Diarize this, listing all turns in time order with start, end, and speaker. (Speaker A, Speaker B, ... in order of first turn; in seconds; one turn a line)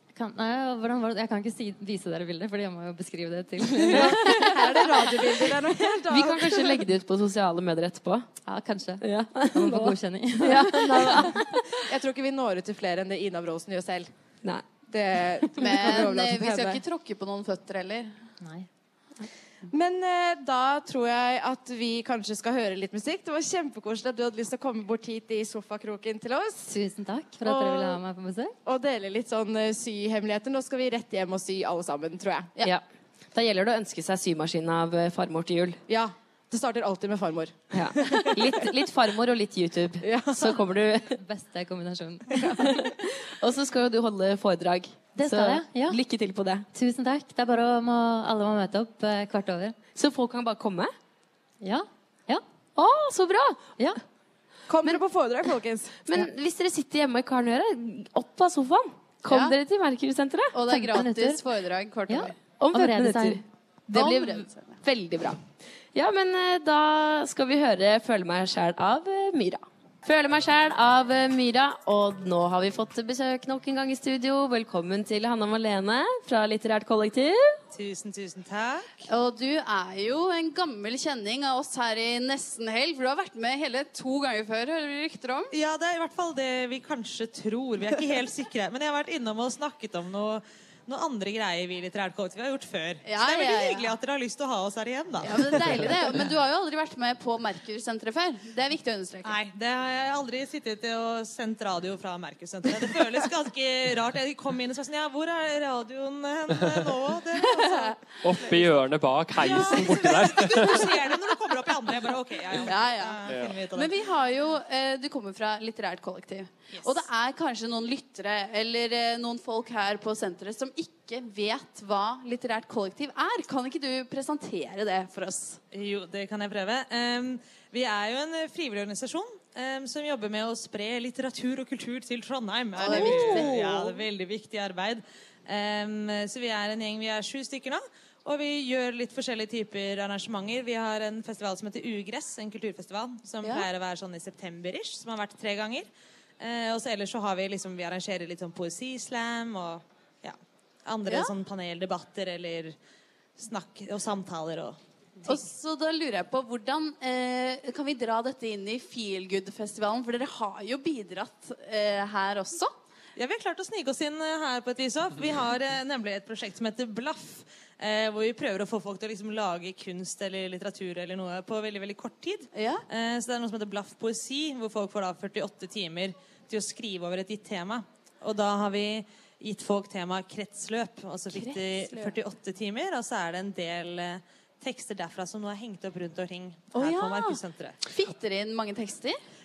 Speaker A: 0.1-5.1
Speaker B: 3.7-6.8
Speaker C: 3.9-4.5
Speaker C: 6.1-8.3
Speaker A: 8.4-11.4
Speaker C: 9.0-11.4
Speaker B: 11.8-14.1
Speaker B: 14.9-16.8
Speaker D: 15.6-18.2
Speaker A: 18.4-18.7
Speaker B: 19.7-26.7
Speaker A: 26.7-28.6
Speaker B: 27.4-28.0
Speaker B: 28.6-32.5
Speaker C: 33.3-35.8
Speaker B: 35.9-38.6
Speaker C: 37.7-41.1
Speaker B: 40.0-40.6
Speaker A: 41.1-42.8
Speaker B: 42.4-42.6
Speaker C: 42.6-46.7
Speaker A: 45.1-46.0
Speaker A: 46.7-49.8
Speaker C: 49.9-50.9
Speaker A: 51.6-52.4
Speaker C: 52.8-53.7
Speaker B: 54.7-56.0
Speaker C: 56.0-60.6
Speaker D: 59.3-59.5
Speaker D: 60.5-62.3
Speaker A: 60.7-61.4
Speaker A: 62.1-63.4
Speaker C: 62.6-65.4
Speaker D: 63.9-64.8
Speaker C: 65.9-77.5
Speaker E: 77.7-79.0
Speaker D: 79.1-85.5
Speaker E: 85.5-95.4
Speaker D: 93.0-93.9
Speaker D: 95.2-99.4
Speaker E: 99.2-107.9
Speaker D: 107.6-107.9
Speaker F: 108.2-110.9
Speaker E: 109.4-113.9
Speaker D: 109.6-110.1
Speaker D: 112.6-125.6
Speaker E: 116.7-117.0
Speaker E: 125.7-145.9
Speaker D: 132.8-133.9
Speaker D: 143.4-143.7
Speaker E: 146.4-152.7
Speaker D: 151.1-151.3
Speaker E: 153.4-154.8
Speaker D: 155.2-162.7
Speaker E: 163.2-187.8
Speaker D: 172.5-172.8
Speaker D: 181.3-182.2
Speaker D: 186.7-189.2